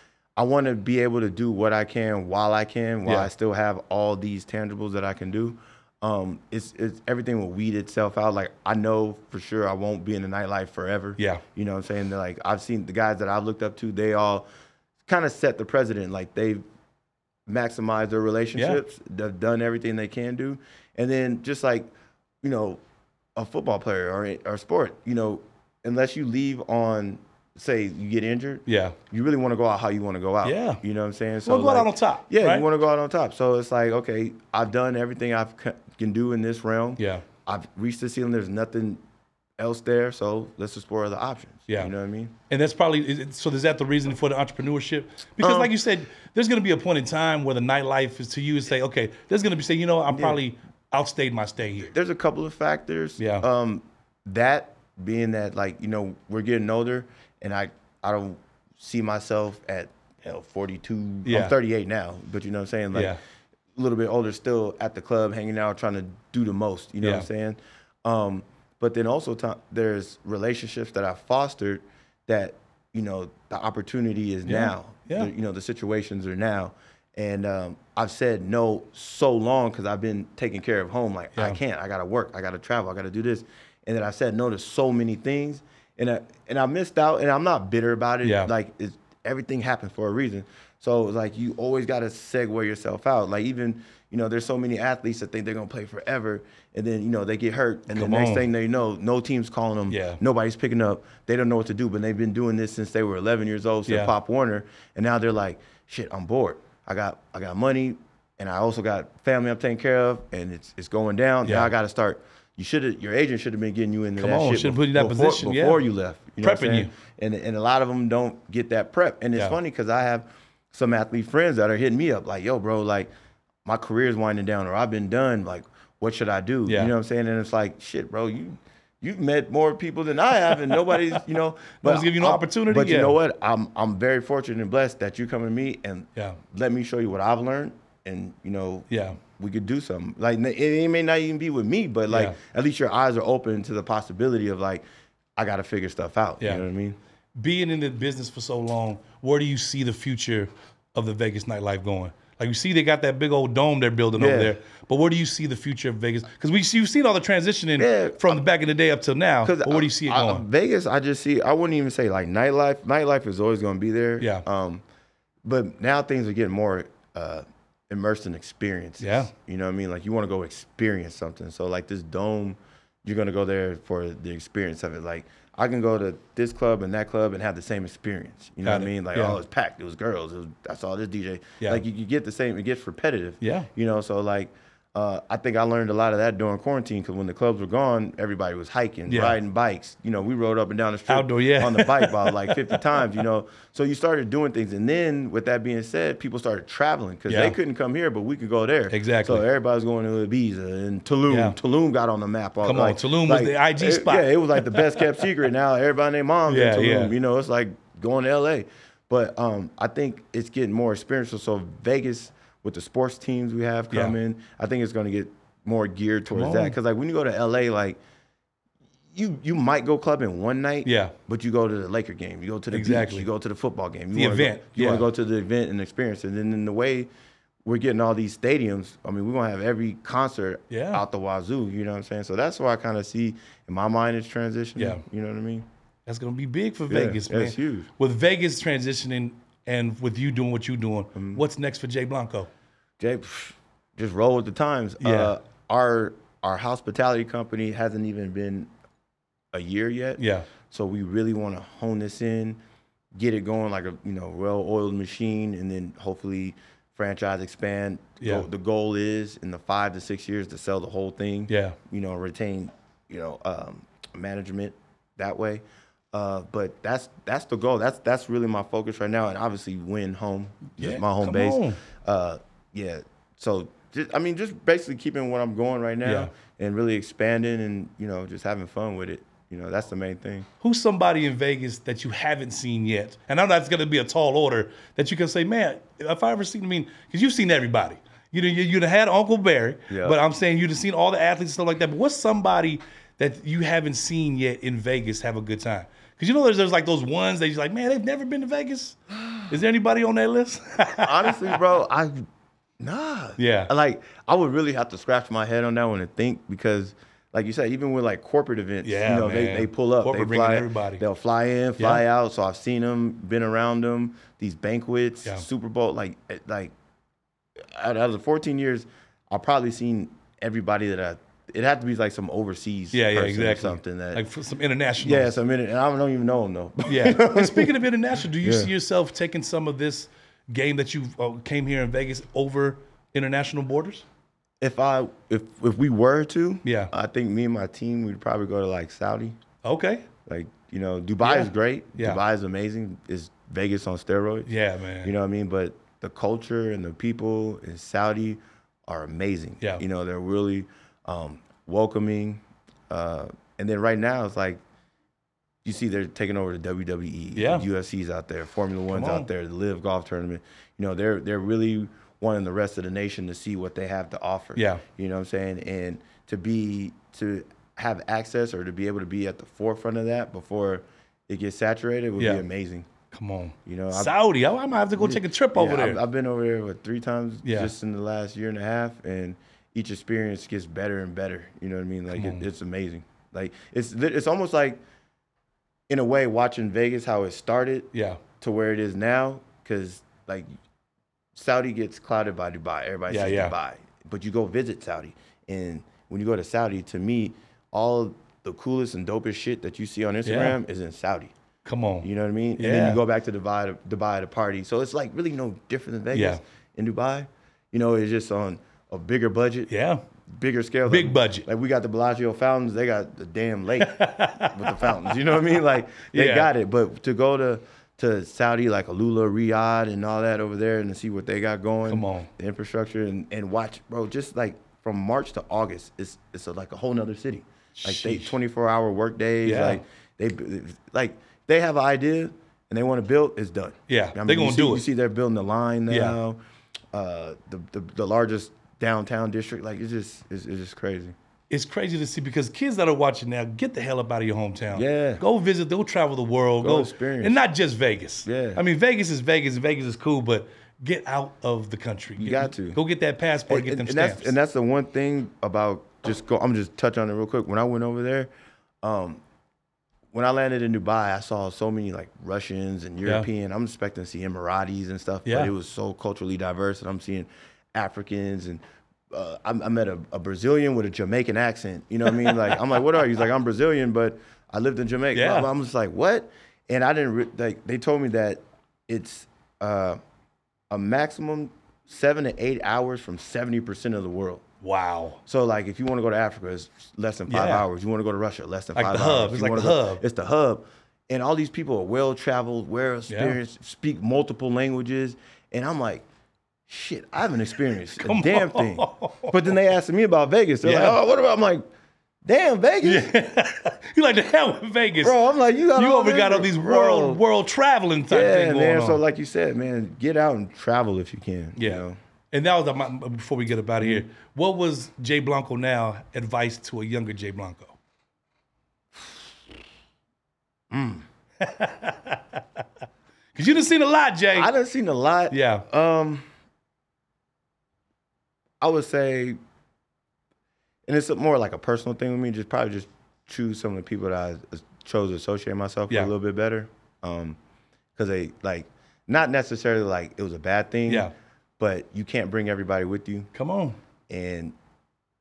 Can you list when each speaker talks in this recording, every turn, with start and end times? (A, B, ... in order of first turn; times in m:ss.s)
0:00.4-0:14.4 A
0:11.2-0:11.4 B
0:15.1-0:16.6 A
0:17.5-0:21.9 A
0:22.4-0:22.8 A
0:23.4-0:39.0 A
0:28.7-0:29.0 B
0:30.4-0:30.8 B
0:31.4-0:32.6 B
0:37.0-0:37.2 B
0:39.6-0:42.3 A
0:42.5-0:51.9 B
0:45.4-0:45.7 A
0:50.1-0:50.4 A
0:51.9-1:03.2 A
0:53.2-0:53.4 B
1:01.2-1:01.5 B
1:02.9-1:03.2 B
1:03.8-2:03.1 A
1:07.0-1:07.3 B
1:14.5-1:15.3 B
1:28.2-1:28.5 B
1:37.9-1:38.4 B
1:39.9-1:40.2 B
1:43.9-1:44.1 B
1:51.4-1:51.7 B
1:54.2-1:55.8 B
1:56.4-1:56.9 B
2:03.6-2:24.8 A
2:06.7-2:06.9 B
2:11.8-2:13.2 B
2:18.9-2:19.2 B
2:22.1-2:22.4 B
2:25.4-2:27.0 A
2:27.4-2:40.4 B
2:34.2-2:34.5 A
2:37.8-2:38.4 A
2:39.4-2:44.8 A
2:45.4-3:38.0 A
2:49.0-2:49.3 B
2:58.6-2:59.4 B
3:03.4-3:03.7 B
3:09.1-3:09.4 B
3:11.1-3:12.6 B
3:17.3-3:17.5 B
3:18.9-3:19.4 B
3:21.3-3:21.6 B
3:22.6-3:25.0 B
3:26.5-3:27.1 B
3:36.3-3:36.7 B
3:39.1-3:47.1 A
3:40.8-3:41.1 B
3:42.7-3:43.3 B
3:44.1-3:45.0 B
3:47.6-3:55.6 A
3:50.7-3:51.0 B
3:54.8-3:55.0 B
3:56.1-4:02.5 B
3:56.9-3:57.9 A
4:01.1-4:01.4 A
4:03.0-4:08.7 A
4:05.0-4:05.3 B
4:09.5-4:12.6 A
4:10.2-4:10.5 B
4:13.1-4:40.5 A
4:18.2-4:18.4 B
4:21.5-4:21.8 B
4:30.8-4:31.8 B
4:36.0-4:36.3 B
4:40.6-5:01.6 B
4:49.9-4:50.2 A
5:01.0-5:02.2 A
5:02.8-5:16.7 A
5:03.4-5:03.7 B
5:08.8-5:11.0 B
5:11.8-5:12.0 B
5:17.6-5:24.2 A
5:22.9-5:25.4 B
5:25.0-5:27.8 A
5:26.9-5:34.0 B
5:28.4-5:28.7 A
5:34.6-5:39.4 A
5:36.6-5:36.9 B
5:39.6-5:40.0 B
5:40.2-5:44.5 A
5:41.2-5:42.2 B
5:44.5-5:45.1 B
5:45.0-5:54.6 A
5:55.6-6:12.9 A
5:57.4-5:57.6 B
5:58.9-5:59.3 B
6:04.6-6:04.8 B
6:12.2-6:12.4 B
6:13.1-6:16.0 B
6:13.6-6:14.1 A
6:15.0-6:24.8 A
6:17.4-6:17.7 B
6:22.1-6:22.4 B
6:25.9-6:30.5 A
6:27.9-6:28.2 B
6:31.3-6:41.3 A
6:33.1-6:33.5 B
6:40.2-6:40.6 B
6:41.6-6:43.0 B
6:42.0-6:49.7 A
6:46.1-6:46.4 B
6:49.7-6:50.0 B
6:50.3-7:16.4 A
6:50.9-6:51.4 B
6:53.8-6:55.1 B
6:56.1-6:56.5 B
7:01.9-7:02.3 B
7:07.8-7:08.3 B
7:09.4-7:09.8 B
7:13.9-7:14.8 B
7:15.9-7:16.2 B
7:16.9-7:21.1 A
7:21.5-7:34.3 B
7:24.7-7:25.2 A
7:26.6-7:27.4 A
7:28.2-7:28.6 A
7:32.2-7:32.8 A
7:33.5-7:38.3 A
7:38.8-7:39.2 A
7:40.1-8:00.0 A
7:45.2-7:45.5 B
7:52.1-7:52.6 B
7:55.1-7:55.5 B
8:00.7-8:04.4 A
8:04.6-8:05.2 B
8:05.2-8:16.0 A
8:07.3-8:07.6 B
8:08.8-8:10.0 B
8:13.1-8:13.4 B
8:16.7-8:21.6 A
8:17.9-8:19.3 B
8:20.6-8:21.0 B
8:22.2-8:23.1 A
8:22.8-8:25.2 B
8:25.0-8:27.2 A
8:25.7-8:29.0 B
8:28.1-8:32.0 A
8:31.6-8:37.8 B
8:40.7-8:41.0 A
8:41.4-8:42.4 B
8:43.3-8:44.5 B
8:44.3-8:46.2 A
8:45.3-8:45.6 B
8:48.6-8:49.4 A
8:50.9-8:57.4 A
8:58.0-9:03.3 A
9:00.9-9:01.1 B
9:03.3-9:03.8 B
9:04.1-9:04.5 A